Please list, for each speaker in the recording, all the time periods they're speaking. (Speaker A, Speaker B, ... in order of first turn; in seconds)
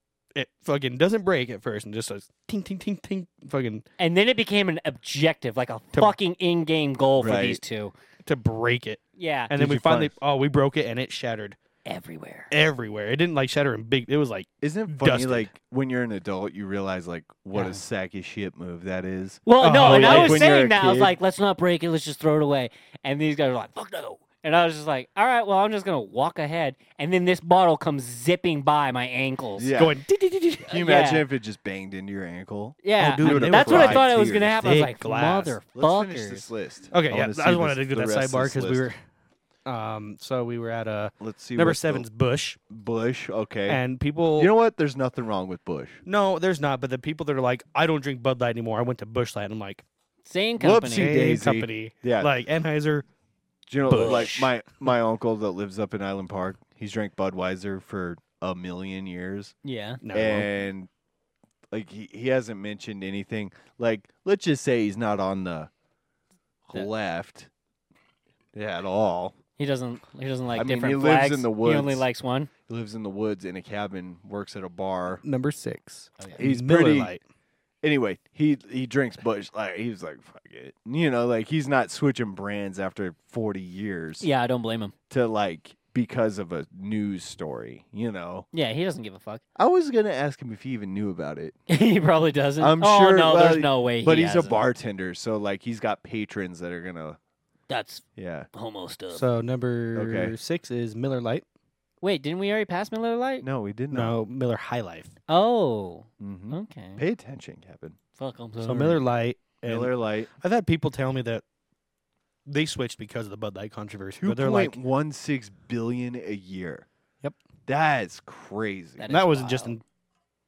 Speaker A: 0.3-3.9, 8.2-11.6, 12.5-15.5, 19.6-20.5, 29.8-30.8, 33.0-35.5, 36.9-39.0, 39.7-42.6, 43.7-44.5, 46.1-49.8, 50.9-53.1, 53.9-54.5, 60.0-60.5, 75.2-77.2, 99.1-101.5, 103.9-105.1, 108.6-111.4, 112.5-114.8, 119.1-119.8
Speaker B: 4.0-7.9, 9.2-9.5, 11.8-12.5, 19.5-29.7, 30.7-31.2, 32.8-36.5, 50.2-51.1, 53.9-54.5, 59.6-60.0, 69.6-72.5, 84.2-84.9, 88.5-89.4, 91.7-94.6, 97.7-99.3, 102.0-103.5, 105.3-107.0, 108.2-109.0, 119.0-119.8
Speaker C: 7.2-7.6, 9.5-10.2, 14.6-21.2, 29.6-30.0, 30.7-34.6, 35.8-38.9, 41.2-42.1, 42.7-43.8, 44.4-46.0, 50.6-52.3, 53.7-59.5, 60.1-60.9, 61.7-65.7, 66.7-67.5, 68.5-69.4, 70.5-72.0, 72.7-75.2, 76.4-77.1, 77.8-84.3, 85.1-88.5, 89.6-91.6, 92.6-97.2, 98.2-98.5, 100.0-100.4, 103.4-104.2, 106.2-108.0, 109.6-110.3, 114.2-116.9, 117.7-119.1